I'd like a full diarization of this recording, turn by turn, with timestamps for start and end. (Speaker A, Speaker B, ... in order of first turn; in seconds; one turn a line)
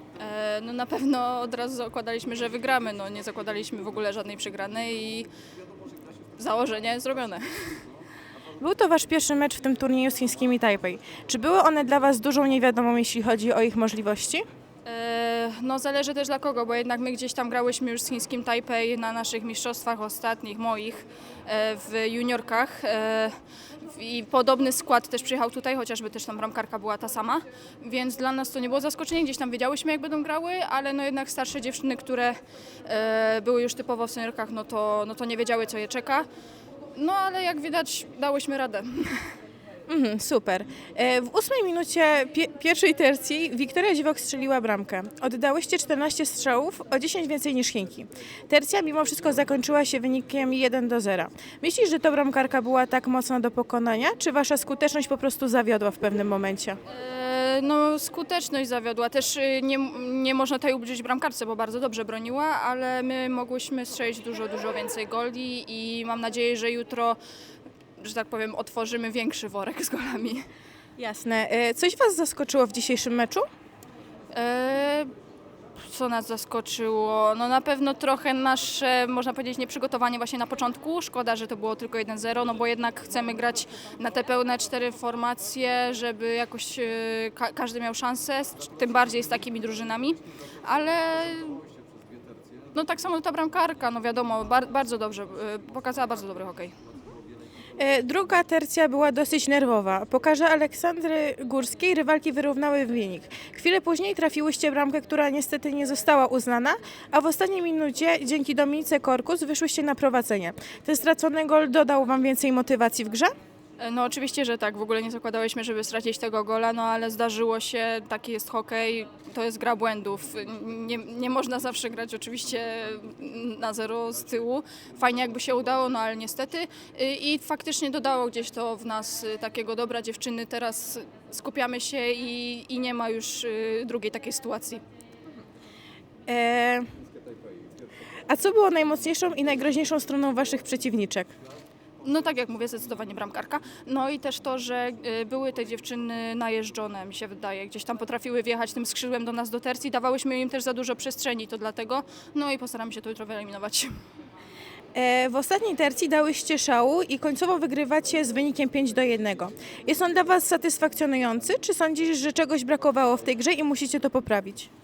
Speaker A: 0.2-5.3
Speaker A: 6.4-7.5
Speaker B: 8.6-14.4
Speaker A: 14.8-36.2
Speaker A: 37.0-39.3
Speaker B: 39.9-56.8
Speaker A: 56.9-67.2
Speaker A: 68.0-70.4
Speaker B: 71.0-73.5
Speaker A: 74.3-75.1
Speaker A: 75.8-91.6
Speaker A: 92.7-96.7
Speaker B: 97.8-113.3
Speaker A: 113.8-134.8
Speaker B: 136.3-136.9
Speaker B: 138.3-141.3
Speaker A: 142.0-153.9
Speaker B: 154.9-164.7